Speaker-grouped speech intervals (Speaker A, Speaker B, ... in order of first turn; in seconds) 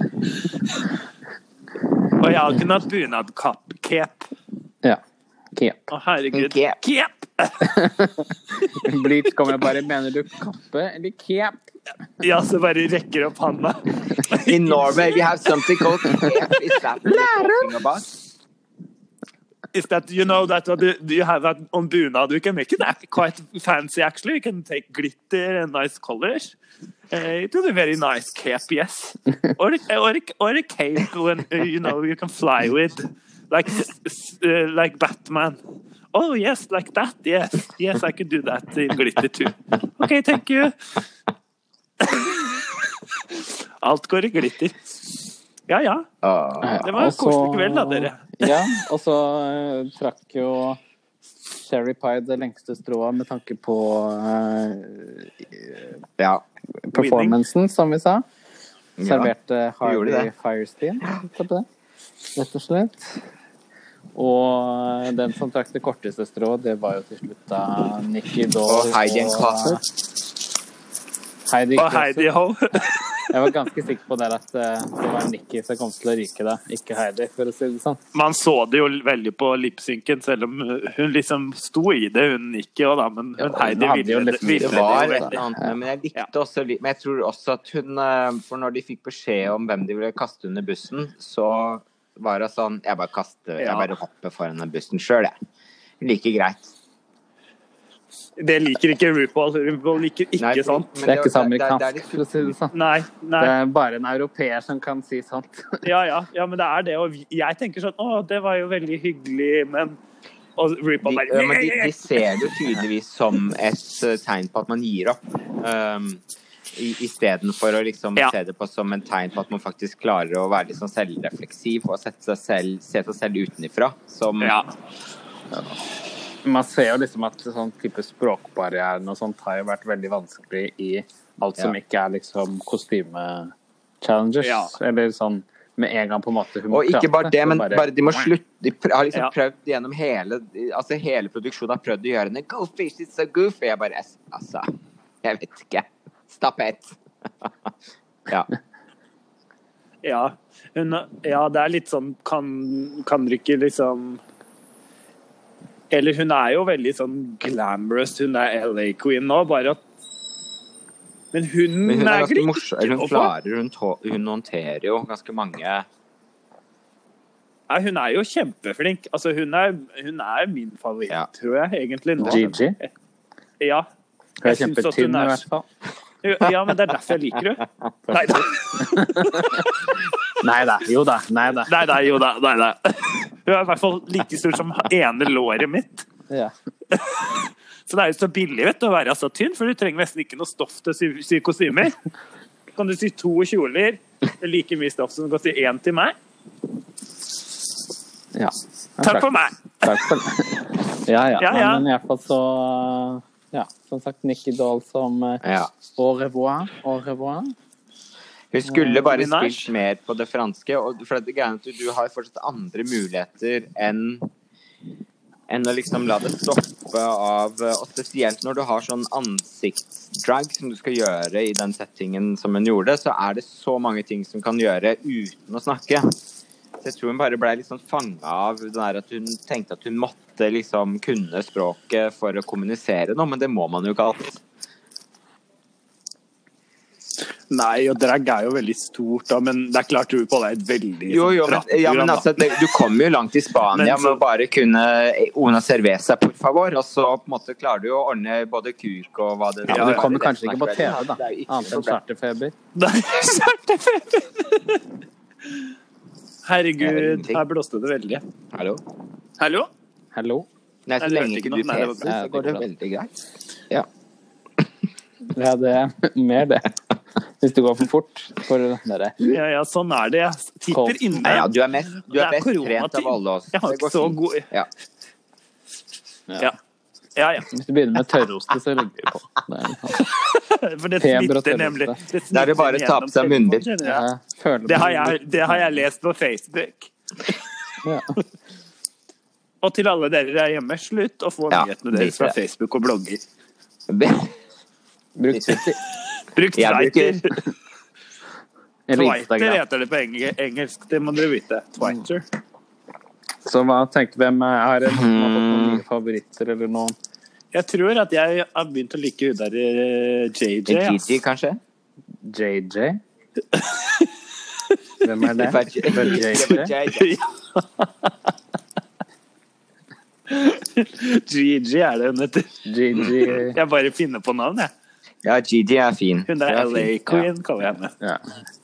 Speaker A: 2.2-4.3, 5.9-7.8, 12.2-15.3, 19.7-26.6, 27.1-35.6, 36.1-40.7, 42.0-44.9, 45.7-46.1, 46.8-48.5, 56.9-57.4, 71.8-73.3, 78.1-85.3, 93.6-93.9, 98.4-100.9, 102.7-103.5, 105.8-110.0, 110.5-112.1, 124.4-124.7, 134.4-134.7, 150.0-154.2, 155.9-159.8, 161.3-163.3, 167.7-172.9, 173.6-173.9, 174.4-175.4, 176.2-179.9, 181.7-186.1, 186.9-191.9, 192.8-196.2, 199.0-200.0, 201.4-201.9, 209.0-209.7, 237.5-242.3, 243.7-244.2, 249.7-250.0, 252.7-254.8, 256.4-258.2, 259.4-259.7, 261.0-262.1, 269.3-274.5, 277.1-277.5, 280.1-284.1, 284.7-287.4, 289.6-293.2, 296.3-297.4, 298.9-302.2, 307.5-311.1, 313.5-314.1, 316.9-318.1, 320.3-322.5, 323.4-324.7, 326.3-327.9
Speaker B: 5.5-5.9, 7.6-11.6, 46.6-50.8, 51.5-56.0, 56.9-58.2, 59.0-61.6, 62.4-63.2, 64.1-69.8, 71.5-72.3, 73.3-78.0, 83.4-85.7, 101.0-102.7, 103.4-105.8, 125.5-125.8, 126.4-138.3, 172.2-172.8, 174.4-175.6, 178.1-179.7, 180.4-181.7, 198.3-199.3, 199.8-207.6, 208.7-209.0, 249.7-252.5, 260.1-260.5, 262.0-262.6, 265.3-266.7, 267.4-269.3, 270.7-271.3, 277.5-280.1, 281.0-282.0, 283.8-285.8, 287.8-288.2, 295.1-295.8, 298.9-299.6, 303.4-306.9, 312.2-313.0, 315.0-316.7, 322.6-323.6
Speaker C: 6.3-6.8, 14.4-18.1, 46.2-46.8, 56.2-56.4, 59.0-59.3, 59.8-60.3, 68.7-69.8, 84.6-95.3, 96.0-96.7, 100.4-102.5, 111.0-116.2, 116.7-124.6, 136.7-144.7, 145.2-147.7, 161.8-165.9, 205.4-205.7, 208.5-214.3, 215.5-226.1, 226.8-234.4, 241.1-252.0, 256.8-257.4, 258.5-258.8, 260.9-263.1, 271.2-274.7, 282.3-283.7, 291.5-292.4, 293.9-294.3, 295.3-295.6, 296.6-297.2, 304.9-305.8, 310.7-311.6, 315.4-317.1, 325.2-327.3